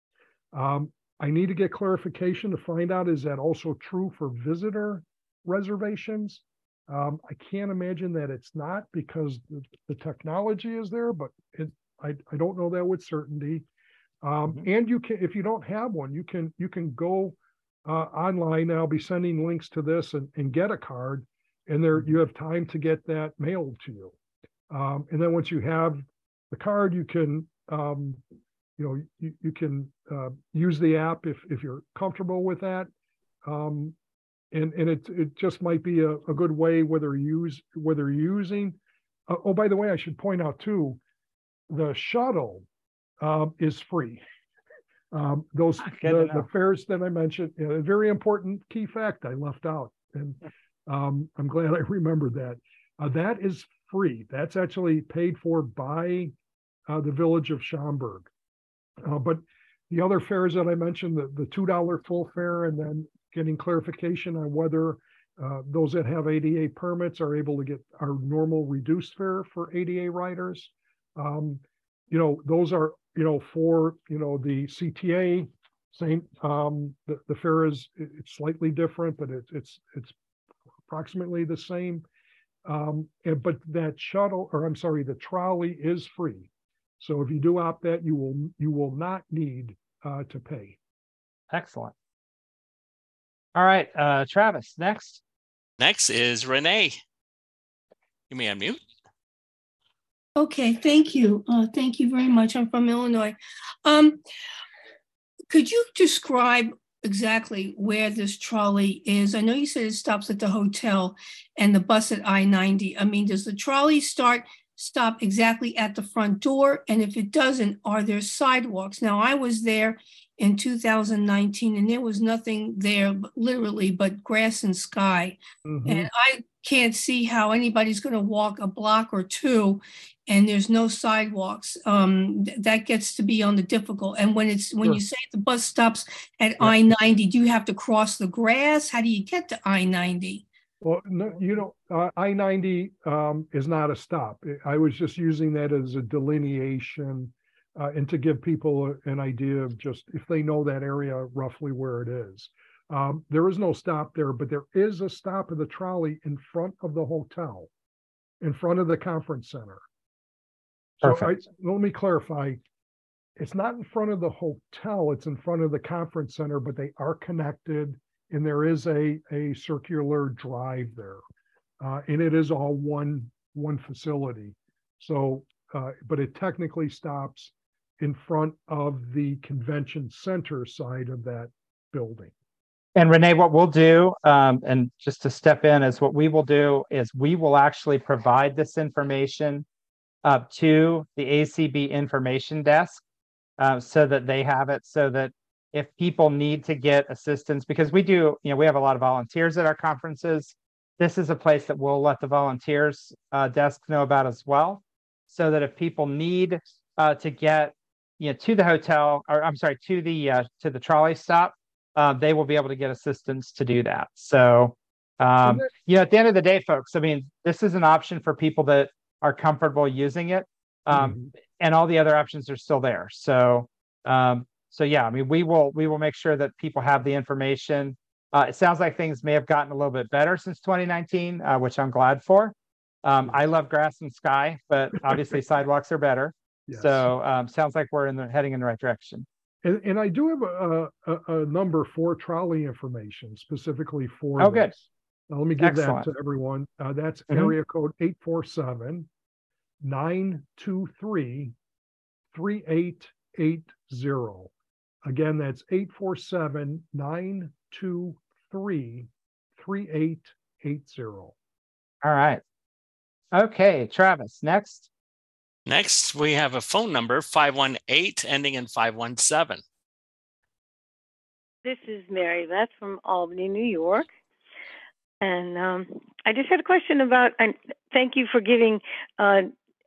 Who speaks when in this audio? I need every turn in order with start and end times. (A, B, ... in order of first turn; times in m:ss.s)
0:00.5-0:13.7 A
0:14.2-0:24.1 A
0:24.7-0:28.2 A
0:28.8-0:32.9 A
0:33.4-0:34.0 A
0:34.5-0:38.8 A
0:39.3-0:41.0 A
0:41.7-0:42.7 A
0:43.2-0:44.2 A
0:45.1-0:56.3 A
0:45.8-0:46.5 B
0:56.9-0:58.3 A
0:59.0-1:20.2 A
1:20.9-1:22.0 A
1:22.7-1:30.8 A
1:31.5-1:31.9 B
1:33.6-1:35.2 B
1:35.8-1:37.0 C
1:38.3-1:38.8 C
1:40.4-1:44.2 D
1:45.5-2:20.4 D
2:05.7-2:06.1 A
2:20.8-2:37.7 A
2:38.4-2:39.8 A
2:41.0-2:42.6 A
2:41.0-2:41.4 B
2:43.4-2:51.2 A
2:51.8-3:02.3 A
3:03.0-3:09.7 B
3:10.2-3:13.0 B
3:13.6-3:59.3 B
3:35.4-3:35.7 A
3:40.9-3:41.3 A
3:56.7-3:57.1 A
3:59.6-4:09.1 A
4:04.4-4:04.7 B
4:05.6-4:06.1 B
4:09.8-4:11.6 A
4:12.3-4:14.5 A
4:15.0-4:21.4 A
4:22.0-4:22.4 B
4:23.3-4:24.9 B
4:25.7-4:29.6 C
4:31.6-4:34.1 E
4:35.2-4:39.5 E